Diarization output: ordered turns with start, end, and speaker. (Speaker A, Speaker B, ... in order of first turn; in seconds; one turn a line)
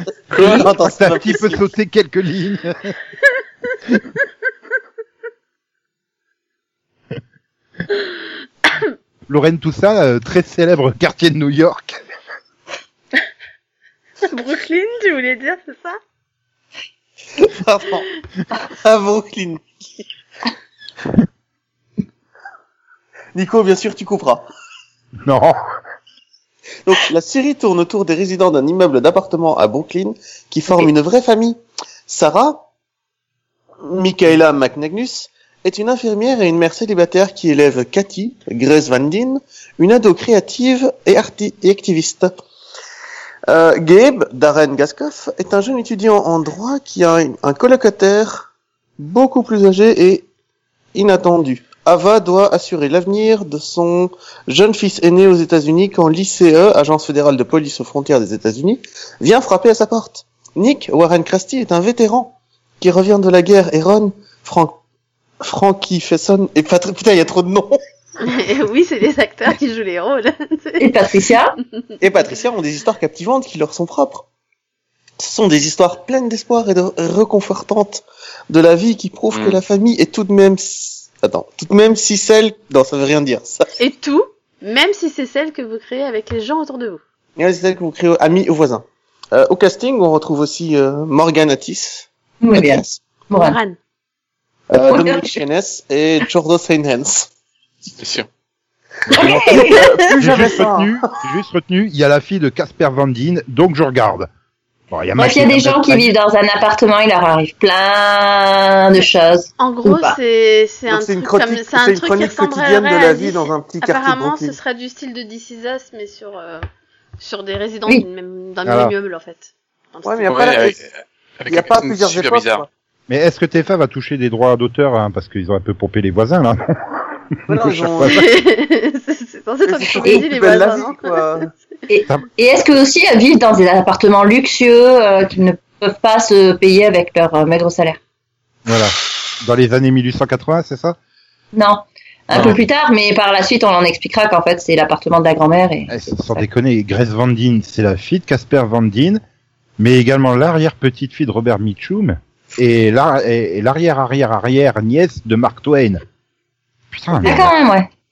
Speaker A: 0.3-1.6
Speaker B: 0.4-3.0
Speaker B: 9.3-12.0
Speaker C: 14.2-16.0
Speaker A: 17.4-18.1
Speaker A: 18.7-20.0
Speaker A: 23.3-24.5
Speaker B: 25.2-25.6
Speaker A: 26.9-32.6
Speaker A: 33.8-42.3
Speaker A: 43.5-50.3
Speaker A: 50.9-64.8
Speaker A: 65.4-67.8
Speaker C: 68.2-70.9
Speaker D: 70.8-71.6
Speaker A: 72.0-74.3
Speaker A: 75.2-83.7
Speaker E: 79.3-79.6
Speaker C: 83.8-87.0
Speaker A: 87.4-93.0
Speaker D: 92.4-93.6
Speaker C: 93.4-93.8
Speaker A: 94.7-97.3
Speaker D: 94.8-95.4
Speaker E: 98.0-98.3
Speaker B: 99.1-104.3
Speaker A: 99.1-101.1
Speaker D: 99.1-99.8
Speaker C: 99.6-100.0
Speaker B: 104.9-106.1
Speaker D: 105.2-110.2
Speaker C: 109.6-116.6
Speaker A: 110.9-114.6
Speaker C: 117.2-120.7
Speaker B: 118.7-118.9
Speaker A: 120.0-120.8
Speaker E: 120.3-122.7
Speaker A: 121.5-122.7
Speaker B: 123.1-128.2
Speaker A: 127.5-128.3
Speaker C: 128.0-131.5
Speaker A: 129.7-131.5
Speaker D: 131.9-138.0
Speaker B: 138.7-141.0
Speaker D: 141.5-146.4
Speaker B: 142.3-142.6
Speaker B: 145.9-149.2
Speaker B: 149.8-156.0
Speaker B: 156.9-157.5
Speaker A: 157.2-157.6
Speaker D: 157.2-157.9